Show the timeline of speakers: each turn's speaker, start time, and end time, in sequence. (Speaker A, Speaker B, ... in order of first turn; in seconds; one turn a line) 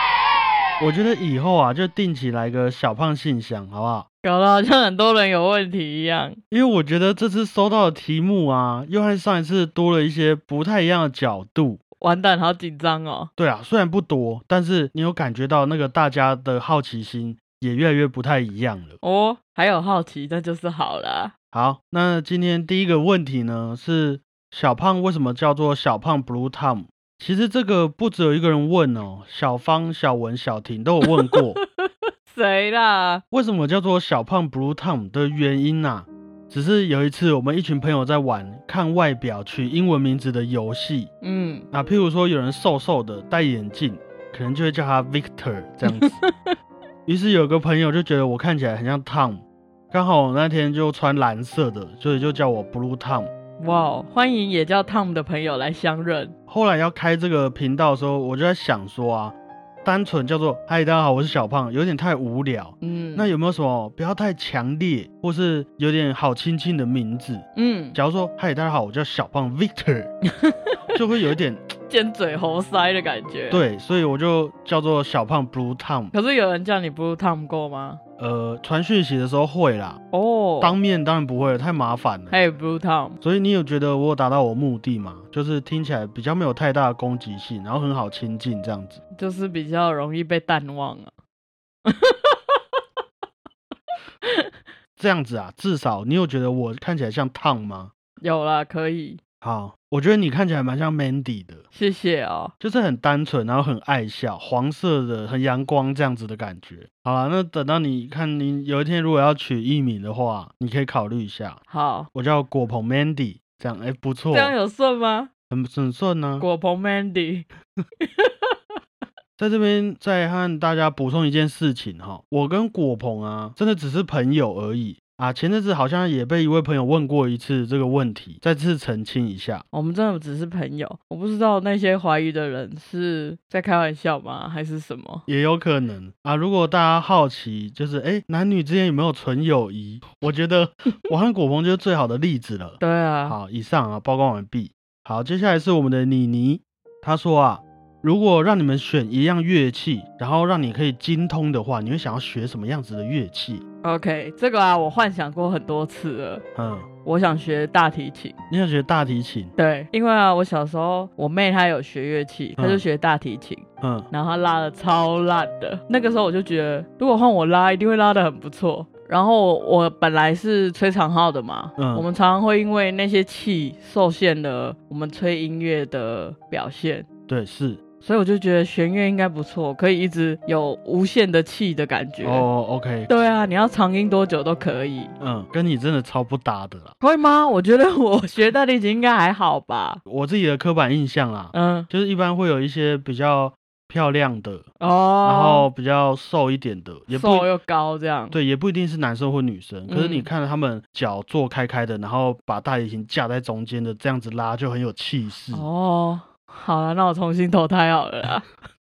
Speaker A: 0.8-4.1
Speaker B: 4.2-6.4
Speaker A: 6.5-11.8
Speaker B: 12.0-13.3
Speaker A: 13.4-19.0
Speaker B: 19.0-21.3
Speaker A: 21.5-31.6
Speaker B: 31.1-33.2
Speaker A: 33.3-41.1
Speaker B: 41.2-41.7
Speaker A: 41.7-46.2
Speaker B: 45.9-46.2
Speaker A: 47.0-53.3
Speaker B: 53.6-56.4
Speaker A: 56.5-70.1
Speaker B: 62.8-63.3
Speaker B: 67.5-68.0
Speaker B: 70.4-70.8
Speaker A: 70.9-71.7
Speaker B: 71.9-73.6
Speaker A: 73.5-76.1
Speaker B: 76.1-78.0
Speaker A: 78.2-80.0
Speaker B: 80.1-80.8
Speaker A: 80.6-82.4
Speaker B: 82.3-83.2
Speaker A: 83.2-89.0
Speaker B: 89.2-91.1
Speaker B: 91.8-92.6
Speaker A: 95.0-97.9
Speaker B: 98.2-99.2
Speaker A: 99.4-101.7
Speaker B: 101.7-102.5
Speaker A: 102.6-111.6
Speaker B: 111.7-112.1
Speaker A: 112.1-114.5
Speaker B: 114.3-115.3
Speaker A: 115.5-116.5
Speaker B: 116.4-117.5
Speaker B: 118.0-118.6
Speaker A: 119.4-129.6
Speaker B: 129.7-135.2
Speaker A: 135.3-153.6
Speaker B: 142.8-143.4
Speaker B: 153.8-156.4
Speaker A: 156.6-156.9
Speaker B: 157.0-158.3
Speaker A: 158.5-159.5
Speaker B: 159.6-177.1
Speaker A: 162.6-162.8
Speaker A: 163.8-164.1
Speaker A: 171.8-172.1
Speaker A: 177.3-177.8
Speaker B: 178.0-182.5
Speaker A: 182.2-183.1
Speaker B: 183.1-185.1
Speaker A: 185.2-186.9
Speaker B: 187.0-190.0
Speaker A: 190.1-194.7
Speaker B: 191.5-191.9
Speaker B: 194.8-195.7
Speaker A: 195.2-197.5
Speaker B: 197.1-198.3
Speaker A: 198.3-205.7
Speaker B: 199.9-200.3
Speaker B: 205.5-208.5